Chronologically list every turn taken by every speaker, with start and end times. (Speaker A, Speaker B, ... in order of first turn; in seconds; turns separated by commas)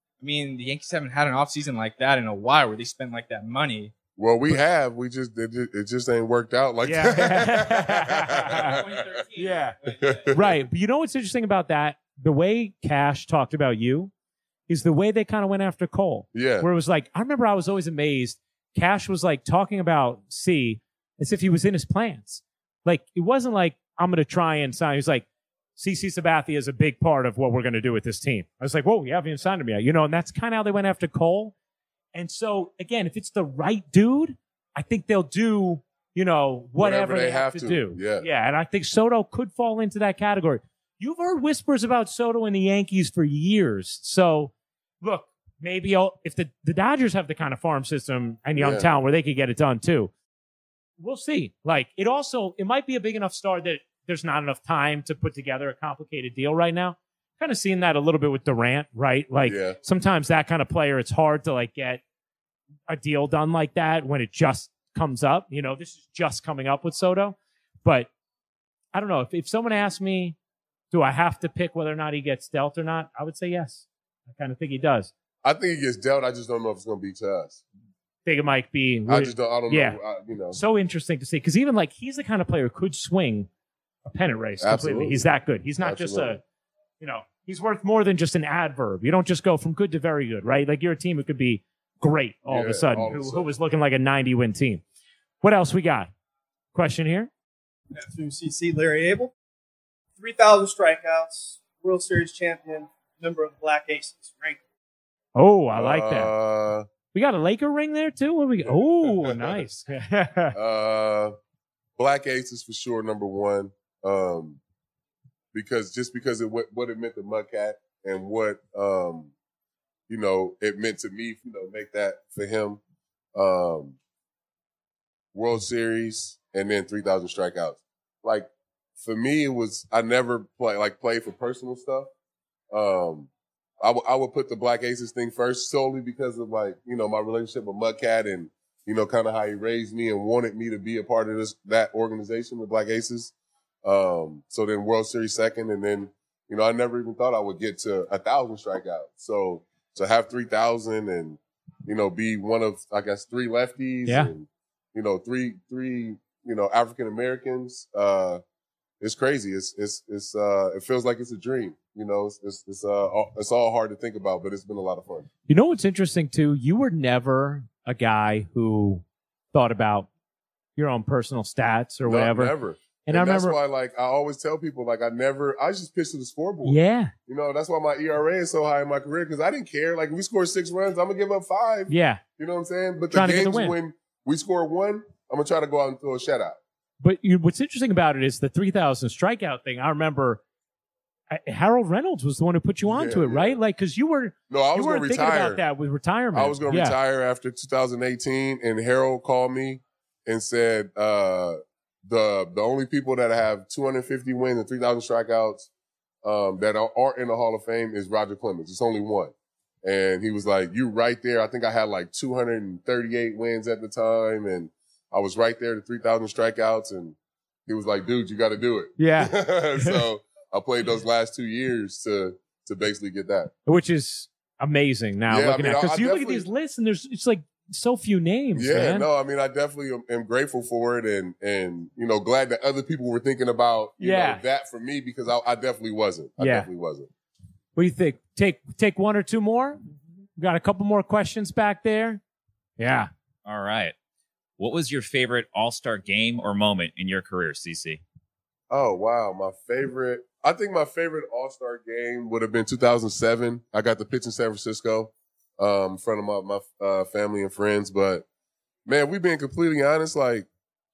Speaker A: 0.2-3.9, Speaker B: 4.2-9.1, Speaker C: 6.8-8.8, Speaker A: 8.4-10.3, Speaker C: 9.4-9.8, Speaker B: 10.0-10.5, Speaker C: 10.3-14.1, Speaker C: 14.7-25.2, Speaker B: 16.3-16.7, Speaker C: 25.8-31.5, Speaker C: 32.1-50.1, Speaker B: 36.8-38.3, Speaker B: 48.6-48.9, Speaker C: 51.0-62.0, Speaker B: 59.5-59.8, Speaker C: 62.9-68.1, Speaker C: 68.9-70.3, Speaker C: 70.9-75.1, Speaker B: 75.4-77.6, Speaker C: 78.2-80.0, Speaker B: 79.1-80.6, Speaker C: 80.5-83.5, Speaker C: 84.0-86.4, Speaker B: 84.6-85.3, Speaker B: 85.8-86.4, Speaker C: 87.0-94.8, Speaker B: 92.5-93.5, Speaker C: 95.4-96.1, Speaker C: 96.7-97.3, Speaker D: 97.9-99.3, Speaker D: 100.2-104.6, Speaker C: 105.3-106.3, Speaker B: 105.7-106.9, Speaker C: 107.1-110.5, Speaker B: 109.0-109.6, Speaker B: 110.5-111.3, Speaker B: 112.0-114.6, Speaker B: 115.5-119.3, Speaker B: 120.1-122.8, Speaker B: 123.3-124.0, Speaker B: 125.3-132.1, Speaker B: 132.7-158.4, Speaker B: 159.0-165.3, Speaker C: 165.5-170.1, Speaker C: 170.8-173.6, Speaker B: 172.1-186.6, Speaker C: 176.6-177.1, Speaker C: 181.9-182.2, Speaker C: 183.1-183.8, Speaker C: 187.0-190.4, Speaker C: 191.3-196.9, Speaker B: 192.8-193.6, Speaker B: 194.5-195.6, Speaker B: 196.3-205.7, Speaker B: 206.2-217.2, Speaker B: 217.7-223.5, Speaker C: 219.0-220.0, Speaker C: 223.7-229.1, Speaker B: 225.3-226.4, Speaker B: 228.5-237.1, Speaker C: 234.0-234.4, Speaker C: 236.4-236.7, Speaker C: 237.8-239.8, Speaker C: 240.4-242.2, Speaker C: 242.8-243.1, Speaker E: 243.4-243.9, Speaker E: 244.6-248.0, Speaker B: 248.7-258.2, Speaker B: 258.9-260.5